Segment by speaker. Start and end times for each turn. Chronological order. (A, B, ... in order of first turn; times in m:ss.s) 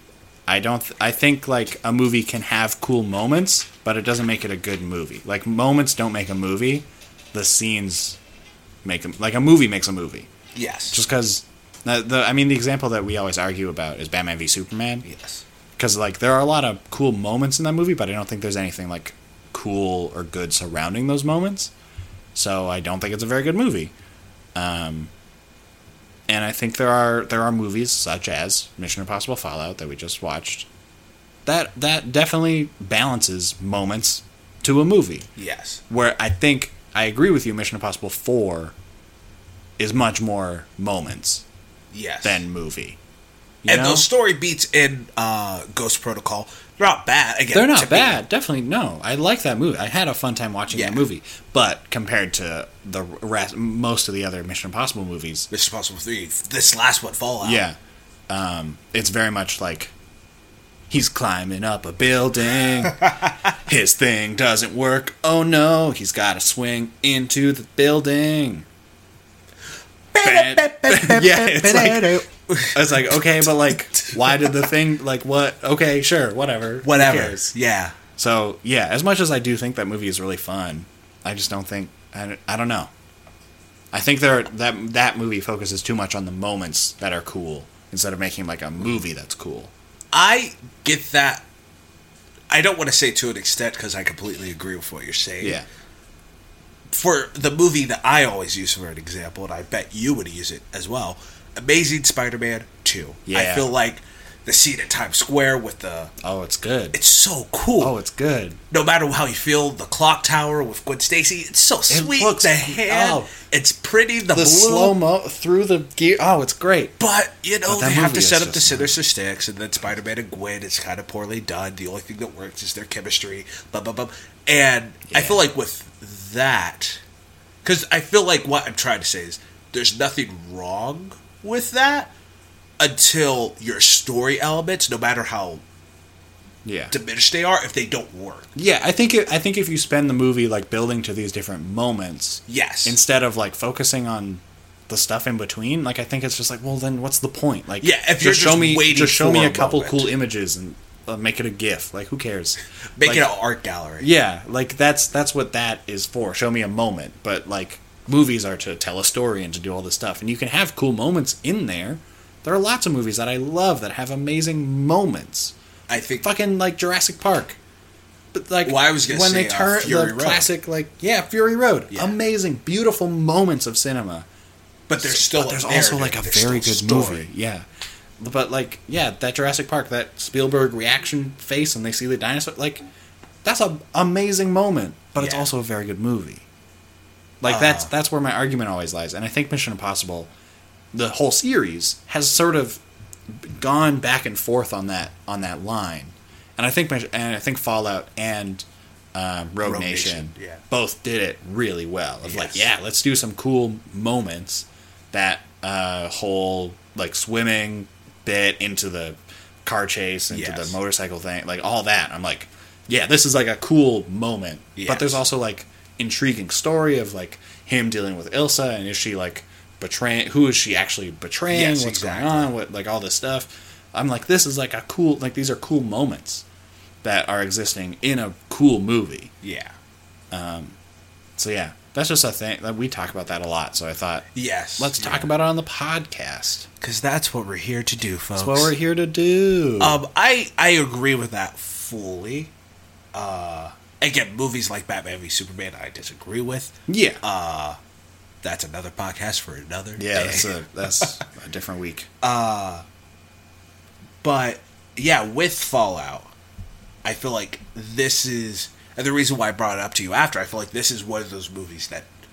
0:00.5-0:08.2 A
0:08.8-0:10.3 A
0:10.5-0:11.0 B
0:10.9-0:15.0 A
0:15.0-0:15.4 B
0:15.8-0:21.7 A
0:22.3-0:23.9 A
0:24.5-0:25.1 A
0:26.3-0:30.7 A
0:31.4-0:35.3 A
0:35.4-0:35.8 B
0:35.9-0:38.7 A
0:39.8-0:41.4 A
0:41.9-0:42.4 B
0:42.2-0:43.0 A
0:43.6-0:44.0 A
0:43.7-0:48.2 B
0:47.5-0:55.5 A
0:50.7-0:51.0 B
0:55.5-0:57.6 B
0:57.4-0:57.8 A
0:58.3-0:59.9 A
1:00.9-1:08.6 A
1:03.0-1:03.3 B
1:10.1-1:14.6 B
1:10.2-1:17.5 A
1:16.8-1:18.0 B
1:18.2-1:22.9 A
1:23.9-1:29.7 A
1:30.1-1:31.4 B
1:32.5-1:35.6 B
1:35.4-1:35.6 A
1:36.9-1:46.1 B
1:43.3-1:43.7 A
1:46.2-1:47.0 A
1:46.9-1:47.9 B
1:47.8-1:48.6 A
1:48.7-1:55.0 B
1:51.9-1:53.3 A
1:54.3-1:56.9 A
1:57.0-2:07.0 B
1:57.7-1:59.0 A
2:05.1-2:05.4 A
2:07.6-2:12.1 B
2:12.8-2:15.6 B
2:16.6-2:16.9 A
2:16.9-2:18.5 B
2:18.5-2:33.3 A
2:22.5-2:23.0 B
2:27.8-2:30.1 B
2:33.0-2:34.1 B
2:34.0-2:45.5 A
2:45.9-2:46.3 B
2:46.2-2:47.6 A
2:48.3-2:54.2 A
2:48.6-2:50.5 B
2:51.9-2:52.2 B
2:54.9-2:57.3 B
2:55.0-2:57.6 A
2:58.2-3:02.8 A
3:03.4-3:06.4 A
3:05.2-3:05.5 B
3:07.4-3:10.3 A
3:07.4-3:07.9 B
3:10.9-3:46.4 A
3:19.6-3:20.6 B
3:22.2-3:22.7 B
3:30.3-3:30.8 B
3:34.8-3:35.2 B
3:41.5-3:42.5 B
3:47.0-3:49.3 A
3:49.4-3:49.8 B
3:50.3-3:50.8 A
3:51.4-3:54.3 A
3:54.3-3:55.3 B
3:54.8-3:56.7 A
3:56.8-3:58.7 B
3:58.4-4:00.0 A
3:59.8-4:02.5 B
4:03.1-4:07.8 B
4:06.9-4:07.2 A
4:08.4-4:11.2 B
4:10.0-4:12.1 A
4:12.2-4:12.8 B
4:14.2-4:16.3 B
4:17.0-4:22.1 B